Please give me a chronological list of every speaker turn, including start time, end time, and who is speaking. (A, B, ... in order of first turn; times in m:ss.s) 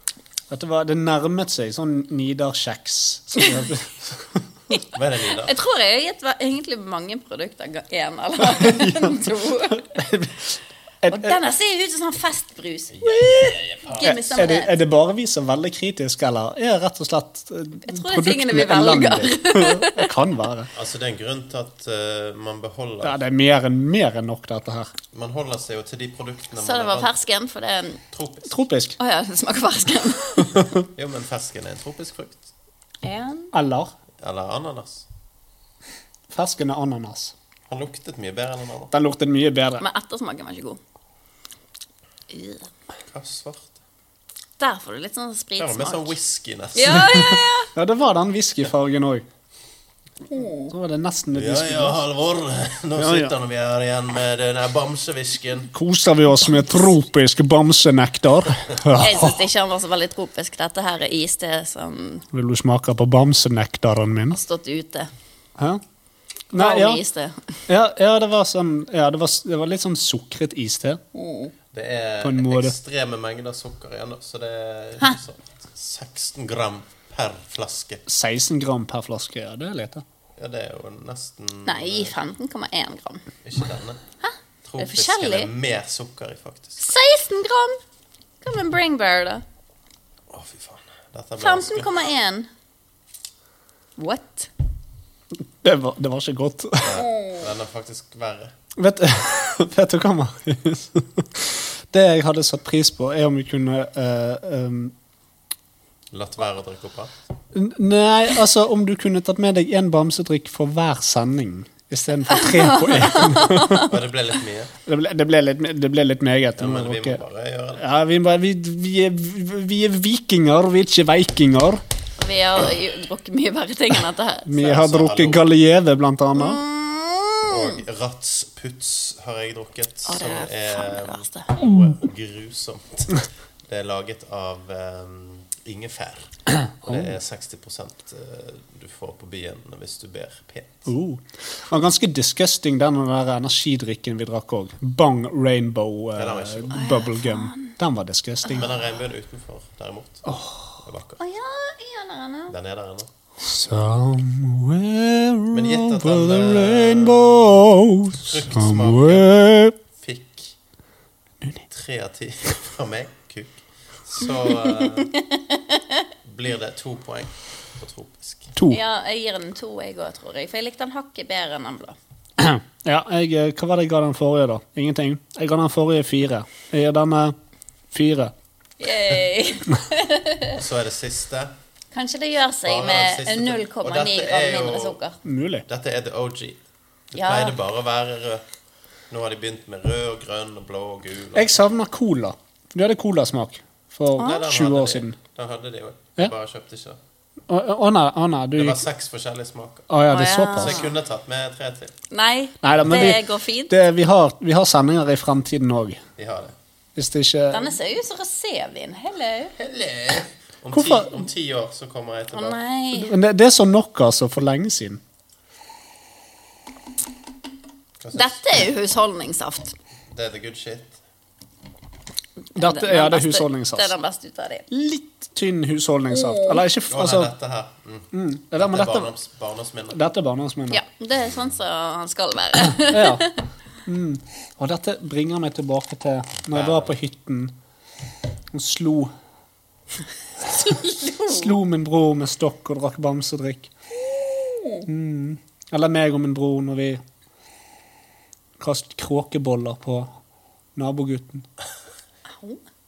0:00.5-0:04.4 A
0:03.4-0:03.7 B
0:04.7-0:09.9 B
0:04.9-0:05.6 C
0:08.5-0:11.4 A
0:11.1-0:14.8 B
0:13.0-0:14.5 C
0:14.0-0:20.7 A
0:17.9-0:20.1 B
0:20.7-0:23.2 C
0:23.0-0:24.9 A
0:25.1-0:27.1 C
0:26.6-0:28.0 B
0:28.1-0:28.6 C
0:28.5-0:29.0 A
0:29.0-0:30.5 B
0:30.5-0:30.8 A
0:30.8-0:32.4 C
0:33.0-0:33.5 B
0:33.5-0:33.9 A
0:34.2-0:35.1 C
0:36.3-0:37.3 A
0:37.7-0:38.9 C
0:38.9-0:39.8 A
0:39.8-0:40.8 B
0:42.3-0:42.7 B
0:43.1-0:43.8 C
0:44.6-0:46.1 B
0:45.6-0:47.2 C
0:46.7-0:47.7 B
0:46.9-0:49.2 A
0:50.3-0:50.7 B
0:50.7-0:52.0 A
0:51.3-0:55.7 C
0:53.0-0:53.3 A
0:55.7-0:59.4 A
0:58.9-1:02.2 B
1:02.3-1:04.4 A
1:04.3-1:05.1 B
1:06.5-1:07.0 A
1:06.5-1:07.6 B
1:07.7-1:11.0 A
1:11.1-1:11.5 B
1:11.7-1:18.0 C
1:12.2-1:12.8 A
1:18.1-1:20.0 A
1:20.4-1:22.2 C
1:21.7-1:23.2 B
1:23.4-1:24.0 C
1:24.2-1:25.5 B
1:24.6-1:26.8 C
1:26.8-1:27.8 B
1:28.4-1:29.4 B
1:30.3-1:31.9 C
1:31.4-1:32.5 B
1:34.0-1:34.5 B
1:35.6-1:37.0 A
1:36.8-1:38.5 C
1:36.9-1:37.5 B
1:38.8-1:44.9 A
1:46.1-1:47.2 C
1:47.5-1:54.0 A
1:52.3-1:53.9 B
1:53.7-1:54.7 C
1:54.9-1:57.2 A
1:56.6-1:57.9 C
1:57.8-2:01.8 A
2:02.2-2:04.5 B
2:04.5-2:06.6 A
2:04.6-2:05.4 C
2:06.4-2:07.8 B
2:07.5-2:16.3 C
2:10.1-2:11.5 B
2:16.6-2:17.2 A
2:16.8-2:20.9 C
2:20.9-2:28.7 A
2:26.2-2:26.9 C
2:26.7-2:27.8 B
2:28.4-2:28.7 B
2:28.5-2:31.2 C
2:30.3-2:30.8 A
2:31.2-2:32.6 B
2:32.5-2:33.1 C
2:33.4-2:39.8 A
2:35.5-2:37.6 C
2:38.2-2:39.3 C
2:40.0-2:40.6 C
2:41.7-2:45.1 C
2:44.7-2:46.0 B
2:46.2-2:48.5 C
2:48.6-2:48.8 A
2:48.7-2:52.0 B
2:52.4-2:57.4 A
2:57.9-2:58.3 A
2:58.8-3:00.6 B
3:00.5-3:01.5 C
3:01.9-3:05.2 B
3:02.7-3:05.0 C
3:05.2-3:05.6 A
3:05.7-3:06.6 C
3:07.1-3:08.4 C
3:07.2-3:07.6 B
3:09.1-3:11.6 C
3:11.4-3:15.2 A
3:14.2-3:14.4 B
3:14.2-3:17.0 C
3:17.5-3:18.8 A
3:18.6-3:19.9 C
3:19.9-3:20.8 A
3:20.1-3:20.9 B
3:20.6-3:21.9 C
3:22.1-3:23.8 B
3:22.6-3:26.0 A
3:22.9-3:23.1 C
3:26.2-3:26.6 C
3:27.0-3:27.8 A
3:27.5-3:29.5 B
3:29.6-3:32.6 C
3:30.7-3:31.2 A
3:32.3-3:33.2 B
3:33.0-3:35.0 A
3:38.0-3:38.6 C
3:38.1-3:39.8 B
3:40.1-3:41.0 C
3:42.6-3:43.9 A
3:42.6-3:44.7 B
3:44.7-3:47.3 A
3:46.1-3:46.6 B
3:46.9-3:50.0 C
3:48.1-3:49.1 A
3:49.9-3:50.8 A
3:50.7-3:53.4 B
3:52.8-3:53.3 A
3:53.9-3:57.5 A
3:56.5-3:57.0 C
3:58.5-3:59.1 A
4:00.5-4:01.5 B
4:00.7-4:03.7 A
4:04.2-4:04.9 B
4:04.9-4:07.0 A
4:08.6-4:10.1 A
4:10.8-4:11.5 A